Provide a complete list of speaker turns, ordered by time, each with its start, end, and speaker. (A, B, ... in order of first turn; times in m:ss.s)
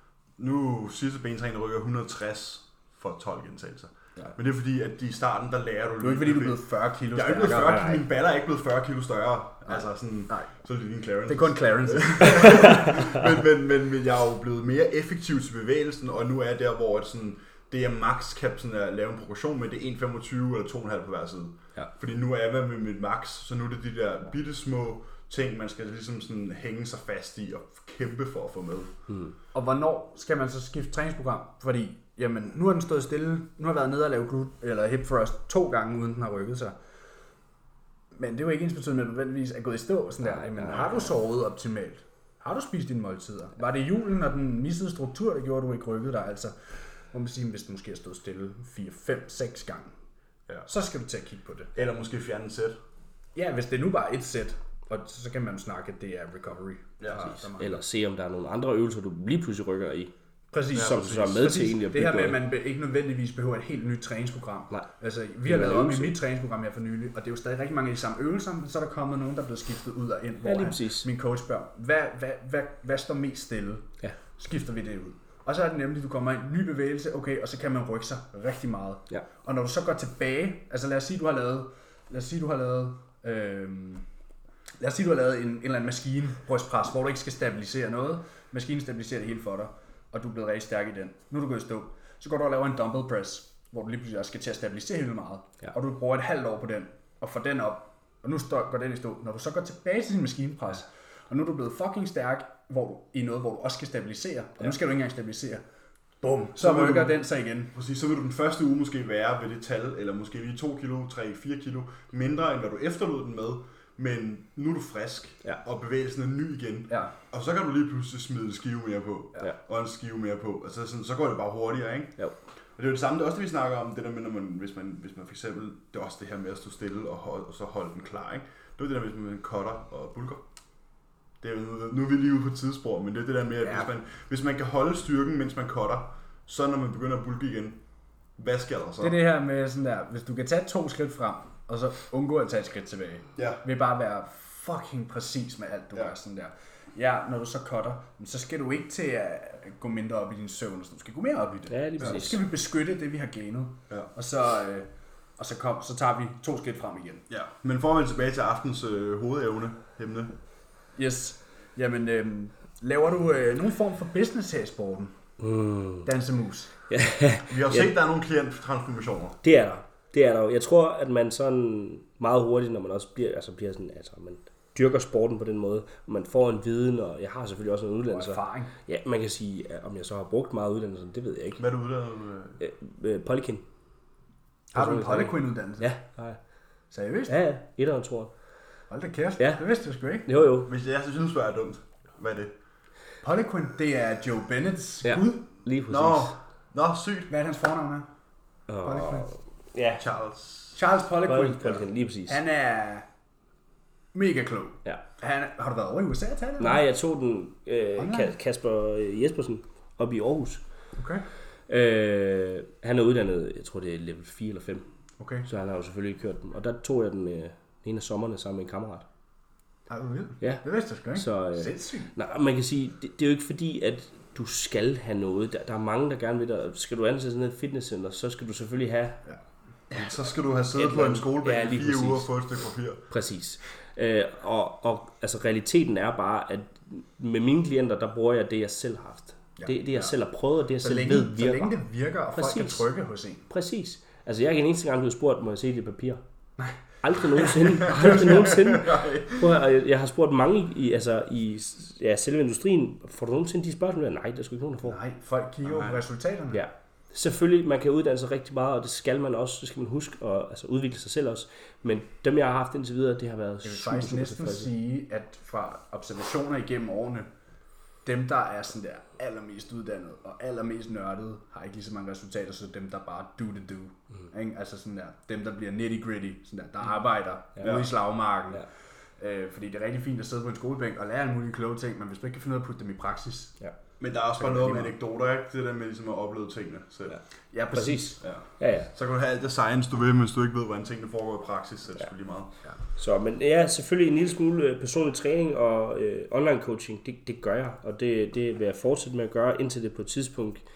0:00.4-0:28.9 A
0:06.0-0:08.0 B
0:07.7-0:08.0 C
0:09.7-0:10.5 B
0:11.3-0:13.2 B
0:29.1-0:29.3 C
0:29.5-0:36.8 B
0:38.1-0:46.5 B
0:40.2-0:41.1 C
0:47.1-0:49.9 B
0:50.6-0:51.8 B
0:51.8-0:52.8 A
0:53.3-0:57.8 B
0:57.0-0:57.3 A
0:57.2-1:00.1 C
1:00.5-1:24.0 B
1:00.7-1:02.4 C
1:00.7-1:01.3 A
1:05.4-1:06.1 C
1:10.4-1:11.1 C
1:24.8-1:45.6 B
1:46.2-1:47.7 B
1:46.6-1:47.2 A
1:47.7-2:02.2 A
2:02.8-2:10.4 A
2:11.4-2:17.8 A
2:13.6-2:13.9 B
2:18.4-2:19.2 A
2:19.0-2:37.2 B
2:23.4-2:23.6 A
2:31.7-2:32.4 C
2:37.3-2:40.3 A
2:41.0-2:45.2 B
2:45.4-2:46.1 C
2:46.0-2:46.7 B
2:46.9-2:47.9 C
2:47.5-2:49.4 A
2:49.4-3:01.6 C
2:58.1-2:58.7 B
3:01.6-3:02.6 A
3:02.6-3:03.6 C
3:04.7-3:05.9 B
3:04.7-3:06.4 C
3:06.9-3:07.3 B
3:07.3-3:08.3 C
3:08.9-3:10.3 B
3:09.4-3:09.6 C
3:10.2-3:10.7 C
3:10.6-3:12.5 A
3:13.2-3:15.4 B
3:15.0-3:16.3 C
3:15.9-3:17.3 A
3:17.3-3:18.1 B
3:18.7-3:20.0 C
3:18.8-3:19.3 B
3:20.0-3:20.8 A
3:20.8-3:23.0 B
3:21.2-3:22.4 C
3:24.1-3:26.8 B
3:26.6-3:30.6 C
3:28.0-3:28.3 B
3:30.9-3:31.3 B
3:31.7-3:34.8 C
3:35.2-3:35.5 B
3:35.5-3:39.0 C
3:39.9-3:42.1 B
3:40.4-3:49.2 C
3:49.9-3:53.0 A
3:50.7-3:52.2 C
3:53.1-4:01.7 C
3:59.6-4:00.1 B
4:00.8-4:03.5 B
4:02.3-4:02.9 C
4:03.5-4:06.2 C
4:07.0-4:15.0 C
4:07.3-4:08.2 B
4:08.0-4:09.5 A
4:14.8-4:16.6 B
4:15.6-4:16.0 A
4:16.5-4:24.7 C
4:23.6-4:27.3 B
4:28.0-4:38.6 B
4:37.6-4:37.9 A
4:39.2-4:43.6 B
4:44.0-4:47.2 A
4:44.4-4:44.9 B
4:47.5-4:48.2 B
4:47.7-4:48.9 C
4:48.2-4:52.5 A
4:53.0-5:00.6 C